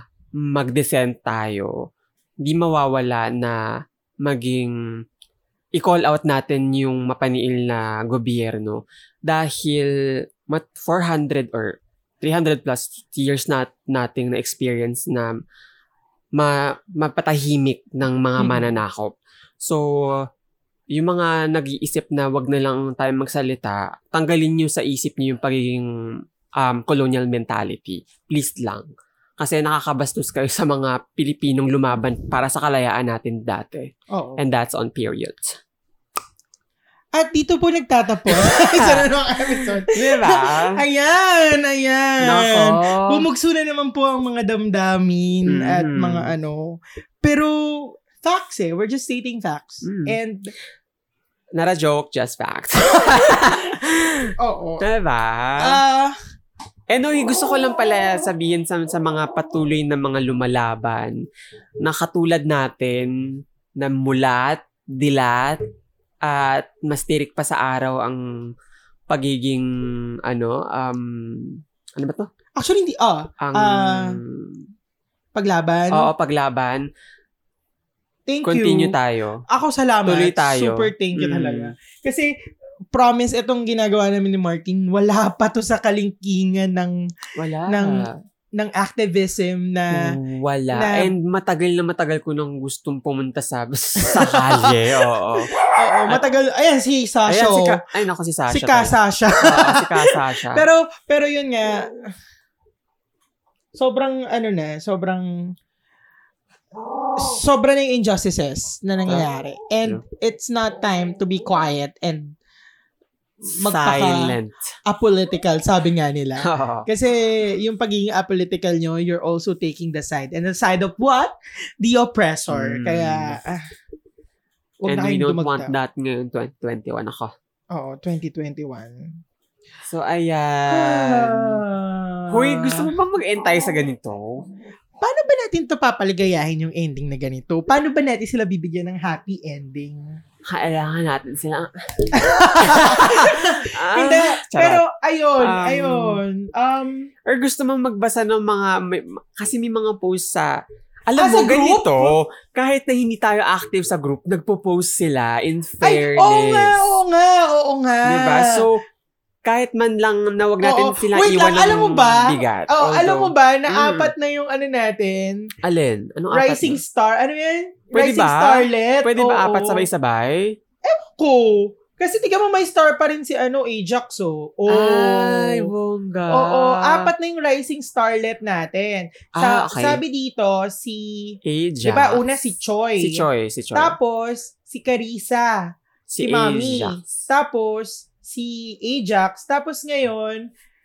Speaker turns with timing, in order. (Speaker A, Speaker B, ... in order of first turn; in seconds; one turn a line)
Speaker A: 0.3-1.8
Speaker A: 2.4-3.6
Speaker A: 4.2-4.7
Speaker A: 5.7-9.9
Speaker A: 10.5-15.3
Speaker A: 16.4-20.2
Speaker B: 18.4-18.7
Speaker A: 20.9-25.9
Speaker A: 26.6-28.9
Speaker A: 29.4-35.6
Speaker B: 34.1-34.4
Speaker B: 37.1-50.5
Speaker A: 38.3-40.8
Speaker A: 42.2-43.2
Speaker A: 45.5-46.3
Speaker A: 49.8-50.1
Speaker A: 51.5-55.8
Speaker B: 54.4-54.9
Speaker B: 55.6-56.1
Speaker A: 56.9-61.2
Speaker A: 61.8-65.6
Speaker A: 66.2-68.2
Speaker A: 69.1-69.7
Speaker A: 70.2-72.3
Speaker B: 72.6-74.2
Speaker A: 73.4-74.6
Speaker B: 75.3-76.1
Speaker A: 75.9-76.9
Speaker B: 78.3-78.9
Speaker A: 78.4-79.4
Speaker B: 79.5-82.3
Speaker A: 80.0-81.7
Speaker B: 82.9-86.9
Speaker A: 87.3-88.1
Speaker B: 87.7-90.2
Speaker A: 89.9-95.5
Speaker B: 90.7-91.1
Speaker B: 94.0-97.8
Speaker A: 97.3-100.7
Speaker B: 98.5-102.0
Speaker B: 103.7-105.5
Speaker B: 107.2-112.4
Speaker B: 113.4-114.3
Speaker A: 113.6-114.7
Speaker B: 114.9-123.6
Speaker A: 116.4-116.9
Speaker A: 122.5-123.4
Speaker B: 124.8-125.8
Speaker A: 124.9-127.3
Speaker B: 127.7-129.1
Speaker A: 129.8-131.6
Speaker B: 130.7-132.9
Speaker A: 132.3-134.4
Speaker B: 135.0-140.2
Speaker A: 140.5-144.8
Speaker B: 142.1-147.1
Speaker A: 145.4-146.2
Speaker A: 147.2-150.5
Speaker A: 151.1-156.9
Speaker B: 151.2-152.2
Speaker B: 155.8-158.7
Speaker A: 158.1-158.8
Speaker A: 159.4-164.1
Speaker B: 160.6-165.4
Speaker A: 165.6-166.8
Speaker B: 166.3-169.8
Speaker A: 167.9-170.6
Speaker B: 170.8-175.7
Speaker A: 174.7-177.1
Speaker B: 176.3-183.2
Speaker A: 179.3-180.0
Speaker A: 181.4-182.2
Speaker A: 183.0-184.0
Speaker B: 183.7-185.6
Speaker A: 186.1-187.1
Speaker B: 186.2-190.5